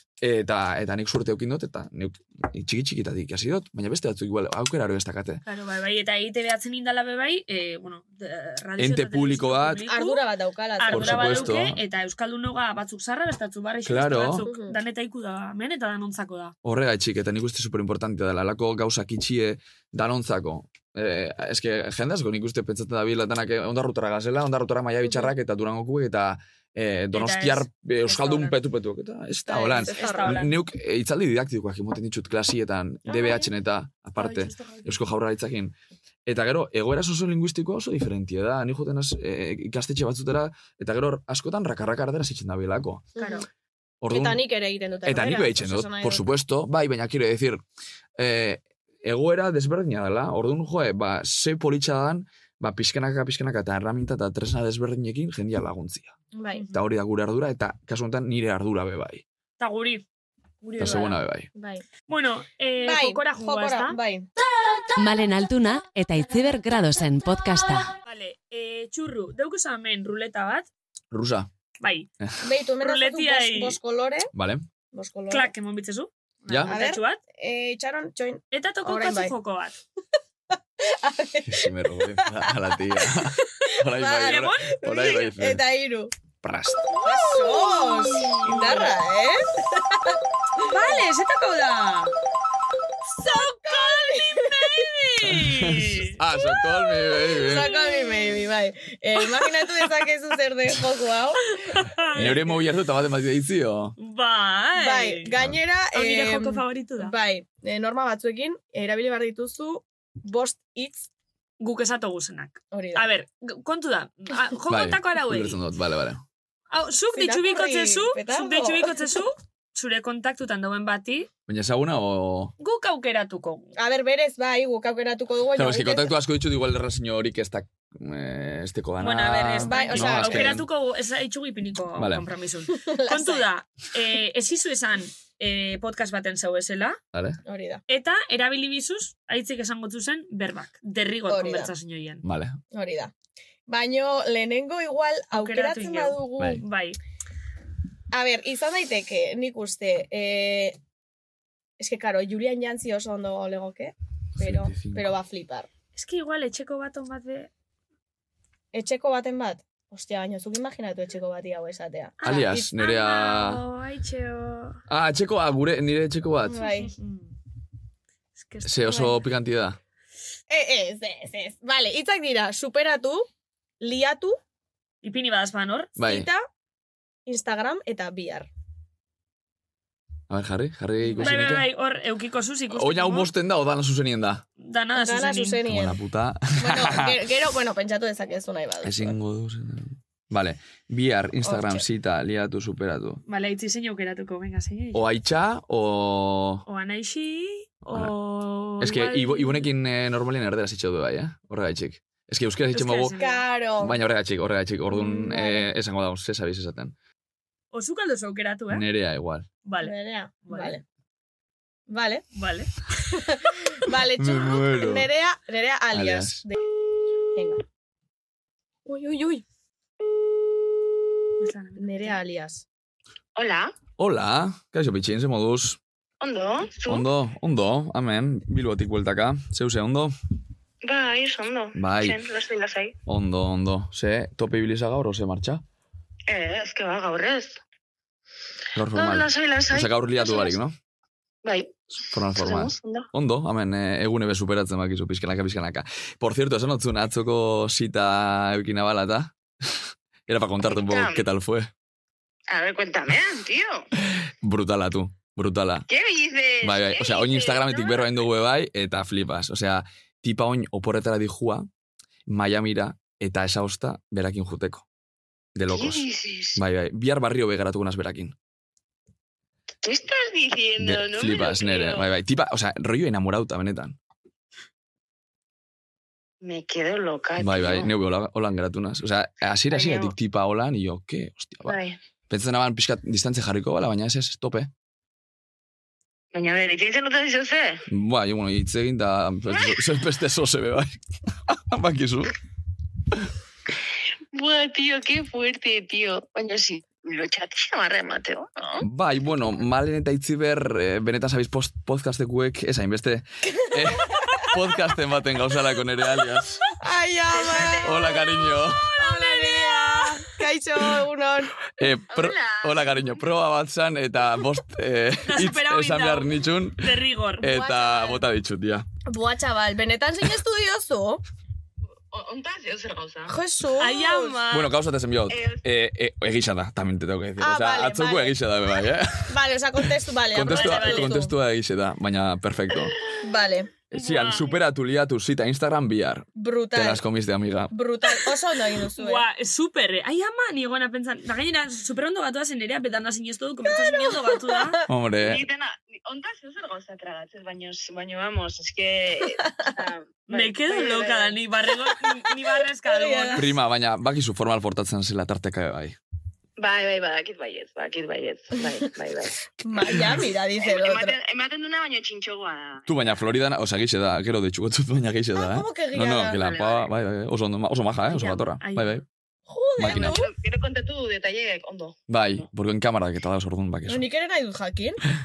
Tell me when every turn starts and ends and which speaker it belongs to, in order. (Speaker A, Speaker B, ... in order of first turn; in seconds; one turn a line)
Speaker A: 0.2-5.4
Speaker B: 5.4-10.2
Speaker A: 8.8-9.8
Speaker C: 9.9-11.5
Speaker B: 10.8-16.5
Speaker A: 10.9-11.8
Speaker A: 13.8-14.5
Speaker C: 14.4-14.8
Speaker A: 16.6-35.7
Speaker B: 27.1-28.6
Speaker C: 29.5-30.4
Speaker B: 29.9-30.5
Speaker B: 33.1-33.5
Speaker B: 34.2-35.0
Speaker A: 36.2-43.1
Speaker C: 43.1-43.4
Speaker B: 43.2-43.5
Speaker A: 44.0-44.4
Speaker C: 44.1-46.2
Speaker A: 45.0-47.6
Speaker A: 48.2-56.1
Speaker C: 56.3-56.6
Speaker B: 56.5-56.9
Speaker A: 56.7-59.2
Speaker B: 59.6-60.0
Speaker B: 60.6-61.2
Speaker A: 60.8-61.5
Speaker C: 61.5-61.8
Speaker B: 62.1-64.0
Speaker C: 62.8-64.3
Speaker D: 65.0-67.9
Speaker B: 68.0-70.7
Speaker A: 71.1-71.5
Speaker B: 71.8-72.1
Speaker C: 72.4-74.3
Speaker B: 72.8-73.8
Speaker A: 74.3-74.7
Speaker C: 74.9-75.5
Speaker B: 75.3-77.2
Speaker A: 76.5-76.7
Speaker C: 76.7-79.3
Speaker B: 78.5-79.8
Speaker C: 80.8-81.7
Speaker A: 81.4-85.6
Speaker C: 82.2-82.5
Speaker C: 83.1-86.1
Speaker B: 84.2-85.3
Speaker A: 86.4-86.9
Speaker B: 86.9-88.9
Speaker C: 87.0-90.9
Speaker B: 90.6-92.1
Speaker C: 93.2-95.0
Speaker B: 93.2-96.2
Speaker A: 95.3-97.7
Speaker C: 96.5-102.4
Speaker B: 97.6-98.2
Speaker B: 101.7-102.3
Speaker A: 102.1-103.9
Speaker B: 104.0-105.3
Speaker C: 104.7-111.1
Speaker B: 105.9-107.1
Speaker B: 111.6-115.6
Speaker C: 112.7-113.1
Speaker A: 114.7-116.2
Speaker B: 116.7-121.3
Speaker C: 117.1-119.1
Speaker A: 121.5-122.5
Speaker B: 122.6-123.7
Speaker C: 123.8-126.1
Speaker A: 125.5-130.7
Speaker B: 129.0-137.0
Speaker C: 129.6-130.5
Speaker A: 132.0-132.2
Speaker C: 132.7-133.5
Speaker A: 137.1-137.4
Speaker C: 137.4-137.8
Speaker B: 137.9-142.2
Speaker C: 141.3-141.7
Speaker A: 142.2-142.6
Speaker C: 142.7-143.1
Speaker C: 143.7-146.6
Speaker B: 145.3-147.0
Speaker C: 148.1-150.8
Speaker C: 151.8-155.7
Speaker A: 154.4-155.1
Speaker B: 155.9-157.5
Speaker C: 158.7-162.7
Speaker B: 162.2-164.8
Speaker A: 162.2-163.6
Speaker A: 164.9-166.6
Speaker C: 166.5-166.9
Speaker B: 166.8-167.3
Speaker B: 168.4-169.1
Speaker A: 168.6-169.8
Speaker C: 168.9-169.1
Speaker C: 170.5-173.3
Speaker C: 173.8-174.4
Speaker B: 175.0-175.9
Speaker A: 176.0-176.3
Speaker C: 176.0-176.4
Speaker C: 177.3-178.5
Speaker A: 180.3-181.6
Speaker C: 181.0-181.3
Speaker B: 181.2-183.3
Speaker A: 182.7-184.4
Speaker B: 184.6-185.6
Speaker C: 184.9-186.0
Speaker A: 185.7-187.2
Speaker C: 186.6-189.2
Speaker A: 188.8-193.2
Speaker C: 191.4-191.8
Speaker B: 193.3-195.0
Speaker A: 194.9-196.6
Speaker B: 196.7-199.7
Speaker A: 198.8-203.1
Speaker B: 202.7-203.5
Speaker C: 203.2-204.0
Speaker A: 203.8-206.9
Speaker C: 204.9-205.7
Speaker B: 207.7-208.9
Speaker A: 208.7-209.5
Speaker B: 209.6-210.8
Speaker C: 209.8-210.8
Speaker C: 211.9-212.2
Speaker B: 212.3-212.7
Speaker C: 213.1-216.6
Speaker A: 214.2-215.1
Speaker A: 215.9-216.4
Speaker C: 217.3-217.6
Speaker C: 218.8-219.4
Speaker B: 221.4-222.2
Speaker C: 221.8-222.6
Speaker E: 223.3-223.7
Speaker A: 224.0-225.8
Speaker E: 226.2-227.1
Speaker A: 226.8-230.1
Speaker E: 230.8-232.9
Speaker A: 231.7-232.2
Speaker A: 233.0-235.6
Speaker E: 236.3-237.5
Speaker A: 238.7-240.8
Speaker E: 238.9-240.6
Speaker E: 241.4-243.1
Speaker A: 242.0-251.7
Speaker E: 250.6-251.2
Speaker E: 252.5-253.8
Speaker A: 254.2-255.9
Speaker E: 255.9-258.2
Speaker A: 256.6-261.7
Speaker A: 262.3-264.9
Speaker A: 265.5-268.3
Speaker E: 265.7-266.6
Speaker E: 269.8-272.1
Speaker A: 270.8-274.0
Speaker E: 276.4-277.9
Speaker A: 277.4-281.8
Speaker E: 279.7-280.1
Speaker E: 281.6-282.0
Speaker A: 282.3-284.7
Speaker E: 286.3-287.8
Speaker A: 287.9-292.3
Speaker E: 289.5-289.8
Speaker E: 294.3-298.8
Speaker A: 298.8-306.6
Speaker C: 306.8-308.3
Speaker E: 307.3-308.1
Speaker A: 307.8-308.9
Speaker B: 308.9-310.3
Speaker C: 309.0-311.5
Speaker A: 311.8-318.9
Speaker E: 312.1-313.4
Speaker B: 315.3-317.6
Speaker C: 317.5-318.2
Speaker C: 319.1-321.2
Speaker E: 322.1-323.4
Speaker C: 323.3-324.4
Speaker B: 323.8-324.7
Speaker A: 324.5-332.9
Speaker E: 325.3-325.6
Speaker C: 327.4-328.4
Speaker C: 329.3-331.3
Speaker B: 330.5-331.2
Speaker C: 333.2-333.7
Speaker A: 333.9-337.7
Speaker B: 333.9-334.5
Speaker C: 336.4-337.0
Speaker C: 337.7-339.2
Speaker B: 338.9-344.8
Speaker C: 343.7-344.8
Speaker A: 344.9-345.4
Speaker E: 345.2-351.4
Speaker B: 350.3-353.4
Speaker C: 352.8-353.5
Speaker A: 353.3-356.0
Speaker E: 356.6-359.4
Speaker C: 359.6-361.2
Speaker E: 360.6-363.2
Speaker A: 362.9-369.0
Speaker C: 365.4-366.4
Speaker E: 366.3-366.9
Speaker B: 368.1-369.0
Speaker C: 369.5-370.3
Speaker A: 369.8-370.2
Speaker E: 370.0-372.4
Speaker A: 372.1-374.1
Speaker C: 373.9-375.0